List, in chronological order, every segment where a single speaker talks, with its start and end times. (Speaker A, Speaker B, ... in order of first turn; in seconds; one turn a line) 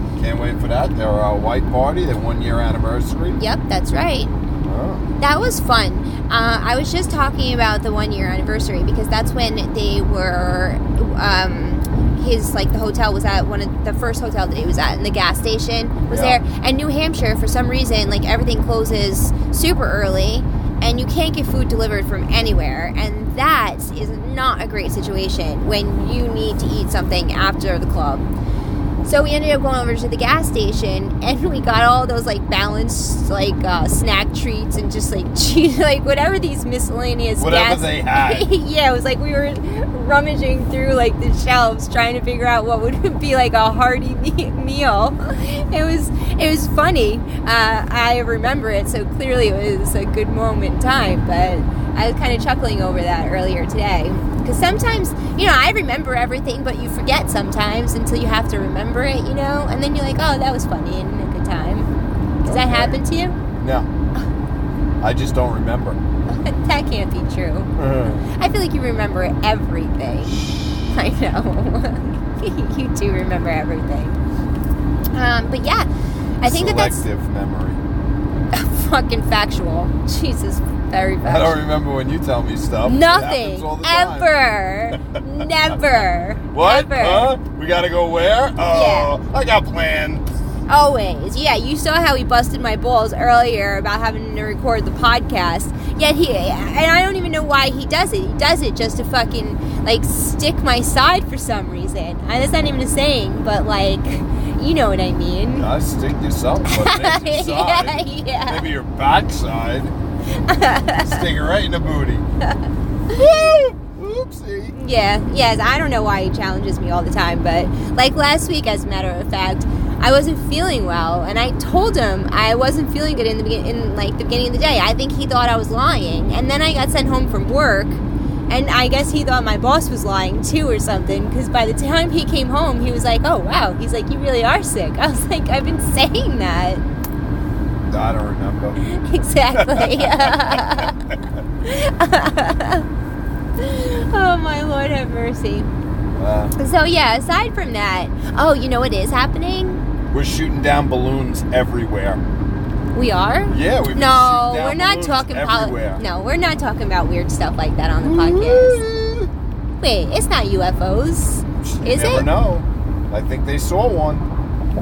Speaker A: 0.1-3.4
Speaker B: 3.4-4.3
Speaker A: 4.6-5.1
Speaker B: 5.2-28.3
Speaker A: 16.1-16.4
Speaker B: 29.0-61.9
Speaker A: 37.4-38.5
Speaker B: 62.4-63.4
Speaker A: 62.4-63.0
Speaker A: 63.5-63.9
Speaker A: 65.0-66.0
Speaker B: 66.3-67.7
Speaker A: 67.8-68.3
Speaker B: 68.3-74.2
Speaker A: 70.2-71.0
Speaker B: 75.1-75.9
Speaker B: 76.4-77.0
Speaker A: 76.4-77.8
Speaker B: 78.5-81.6
Speaker A: 81.2-84.3
Speaker B: 82.8-87.3
Speaker A: 84.9-86.0
Speaker A: 86.5-90.2
Speaker B: 88.7-89.2
Speaker B: 90.7-105.7
Speaker A: 105.5-109.9
Speaker B: 106.7-108.7
Speaker B: 110.3-111.2
Speaker A: 111.0-112.2
Speaker B: 112.4-113.5
Speaker A: 113.1-114.7
Speaker B: 114.7-136.8
Speaker A: 137.8-138.8
Speaker B: 138.8-141.0
Speaker A: 139.5-140.9
Speaker B: 141.6-142.8
Speaker B: 143.6-145.7
Speaker A: 146.1-146.5
Speaker B: 146.6-149.8
Speaker A: 150.1-152.2
Speaker B: 152.9-158.8
Speaker A: 153.5-156.0
Speaker A: 158.0-159.3
Speaker B: 159.8-162.3
Speaker A: 161.6-164.3